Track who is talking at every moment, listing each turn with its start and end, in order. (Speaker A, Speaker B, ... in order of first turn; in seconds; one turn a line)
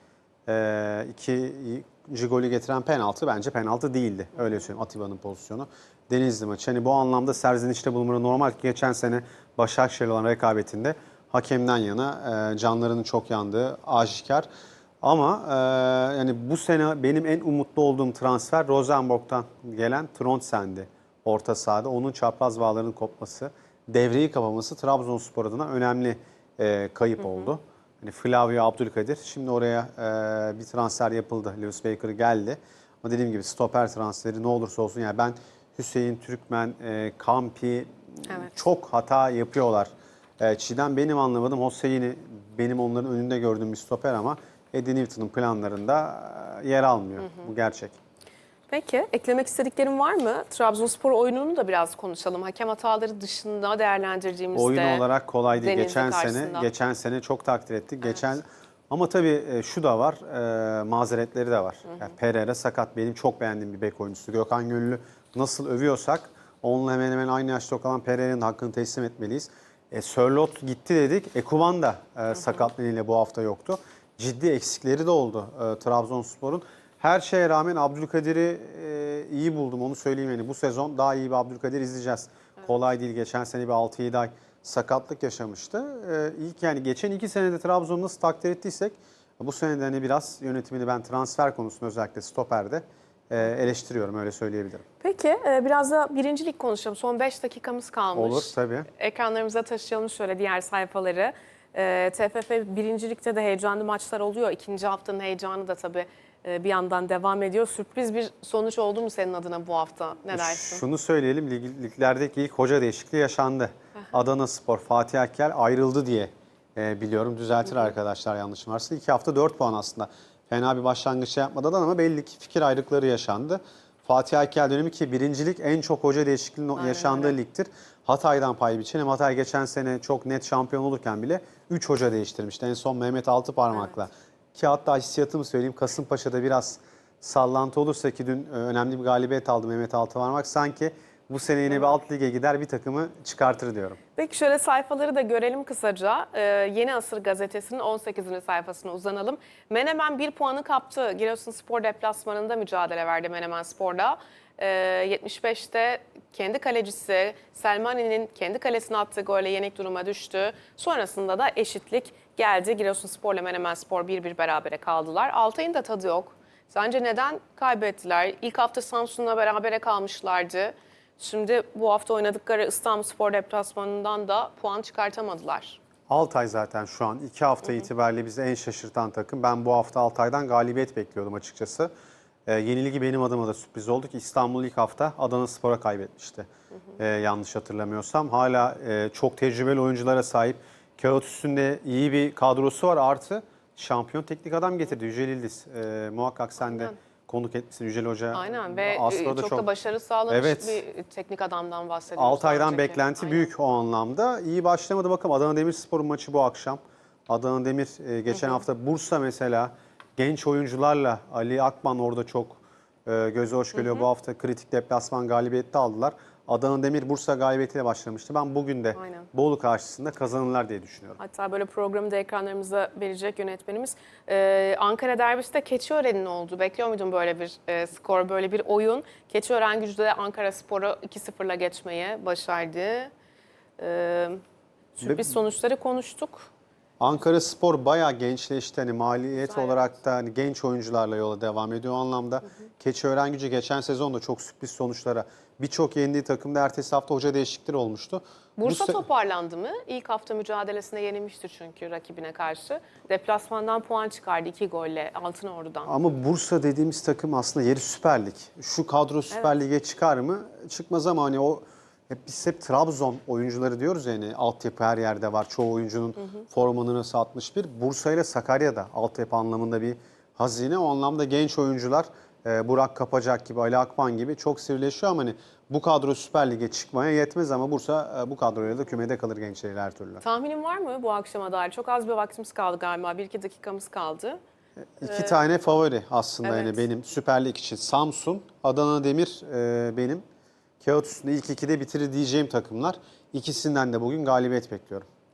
Speaker A: 0.5-14.5
Speaker A: 15.0-48.0
Speaker B: 48.7-56.7
Speaker A: 54.5-94.8
Speaker B: 95.0-110.8
Speaker A: 98.1-98.9
Speaker A: 110.3-144.0
Speaker B: 126.8-127.3
Speaker B: 141.7-142.0
Speaker B: 144.2-175.8
Speaker A: 176.1-181.9
Speaker A: 182.5-199.7
Speaker B: 196.6-196.9
Speaker B: 198.3-203.5
Speaker A: 200.3-200.8
Speaker A: 202.2-221.2
Speaker B: 213.8-214.1
Speaker B: 218.9-219.3
Speaker B: 221.2-233.1
Speaker B: 233.8-234.4
Speaker B: 234.9-236.5
Speaker A: 237.0-249.1
Speaker B: 239.4-239.9
Speaker B: 248.6-255.9
Speaker A: 255.9-280.2
Speaker B: 259.3-259.6
Speaker B: 280.2-284.4
Speaker A: 285.0-290.2
Speaker B: 285.0-285.4
Speaker B: 286.4-286.8
Speaker A: 290.8-295.1